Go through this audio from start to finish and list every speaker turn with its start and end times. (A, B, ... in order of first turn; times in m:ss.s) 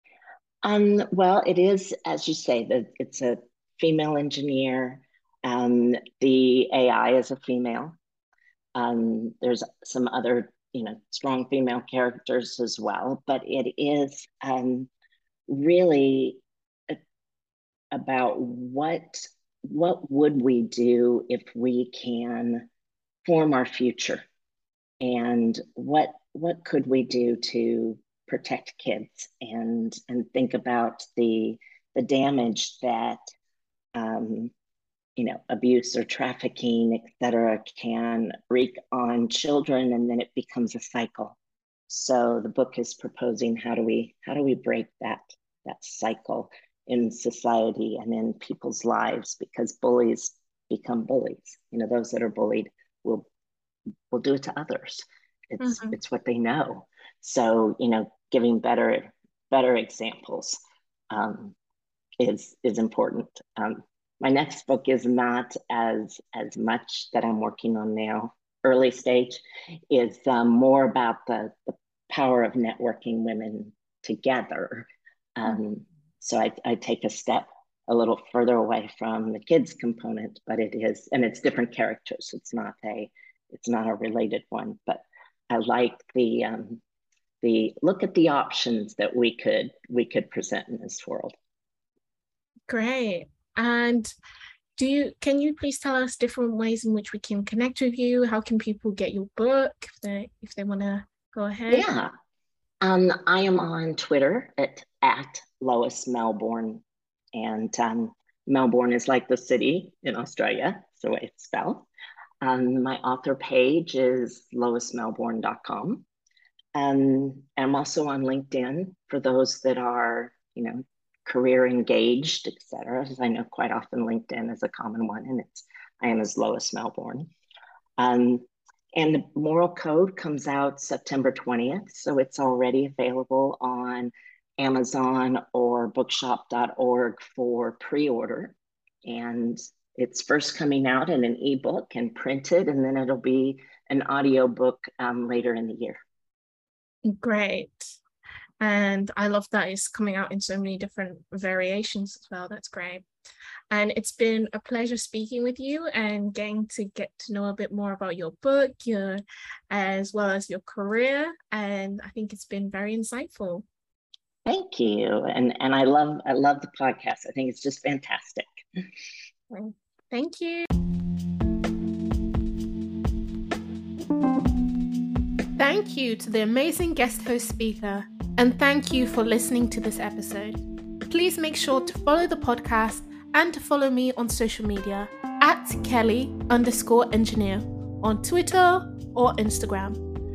0:00.6-0:08.0 A
0:08.8-0:14.9 A
0:15.5-0:17.0 A
0:17.9-0:22.7 A
0:23.2-0:24.2 A
0:25.0-0:33.2 A
0:34.0-0:34.5 A
0:35.2-0:41.4 A
0:41.9-0:53.3 A
0:54.1-1:00.6 A
0:55.6-0:56.0 B
1:01.1-1:01.6 A
1:02.2-1:26.8 A
1:27.4-1:31.3 A
1:32.7-1:34.1 B
1:34.8-1:41.9 B
1:41.7-1:42.1 A
1:42.8-1:46.8 A
1:47.3-1:51.9 A
1:52.4-1:56.0 A
1:56.8-2:07.3 A
2:08.0-2:26.0 A
2:27.0-2:28.0 B
2:28.6-2:33.0 B
2:33.7-2:43.7 B
2:44.5-2:48.5 A
2:49.5-2:50.7 B
2:55.6-3:10.0 B